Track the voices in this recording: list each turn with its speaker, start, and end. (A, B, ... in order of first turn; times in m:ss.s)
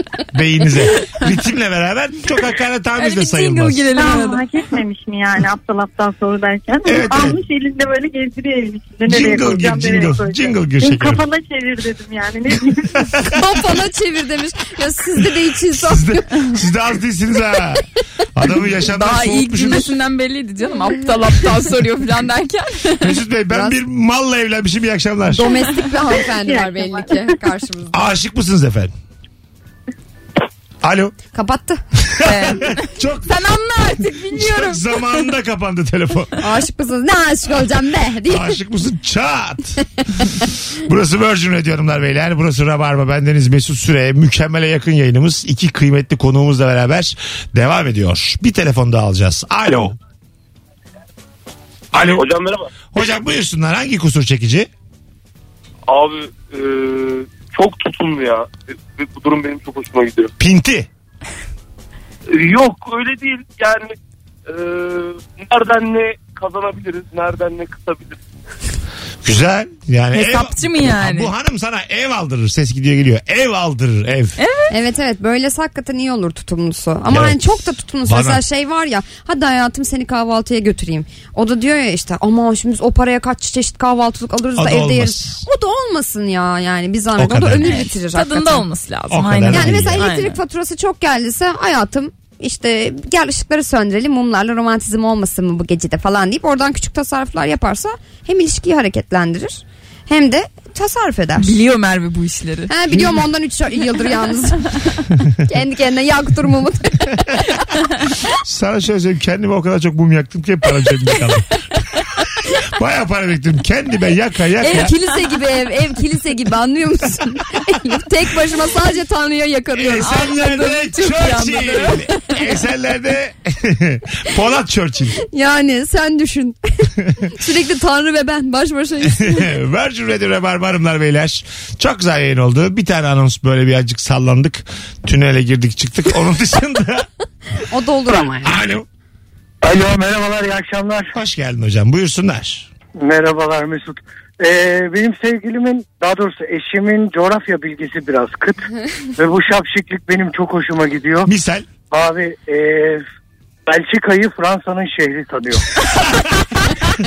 0:00.3-0:03.9 A
0:03.0-0:04.4 B
0:03.9-0:13.1 C
0:06.8-0:07.4 A
0:09.1-0:11.2 A
0:13.3-0:16.4 D
0:15.7-0:19.9 A
0:18.9-0:23.0 B
0:23.0-0:25.5 A
0:23.5-0:23.8 D
0:25.3-0:28.0 D
0:26.4-0:27.2 C
0:27.9-0:28.9 A
0:30.8-0:31.1 A
0:31.3-0:31.8 D
0:32.1-0:33.3 A
0:32.2-0:35.0 B
0:34.3-0:36.4 A
0:36.4-0:38.6 D
0:38.3-0:39.8 A
0:40.8-0:50.0 A
0:51.9-0:52.2 A
0:52.9-0:54.7 A
0:55.9-1:00.3 E
1:00.4-1:00.9 A
1:02.3-1:03.9 E
1:04.5-1:08.2 E
1:09.2-1:14.4 A
1:10.1-1:11.3 B
1:14.4-1:14.7 B
1:14.7-1:28.7 D
1:17.1-1:18.4 A
1:24.5-1:25.4 A
1:27.2-1:27.9 A
1:27.6-1:30.4 B
1:29.1-1:30.1 A
1:29.5-1:41.5 D
1:41.4-1:42.7 B
1:42.7-1:47.6 D
1:48.4-1:51.5 A
1:52.5-1:54.9 A
1:54.6-2:00.2 D
1:59.7-2:05.2 A
2:00.0-2:02.1 B
2:05.3-2:09.5 D
2:09.0-2:17.1 A
2:17.7-2:18.6 D
2:18.4-2:18.8 A
2:19.6-2:21.1 F
2:21.1-2:22.7 A
2:23.0-2:28.6 F
2:29.2-2:31.3 F
2:31.2-2:31.7 A
2:31.9-2:33.0 F
2:33.7-2:35.6 F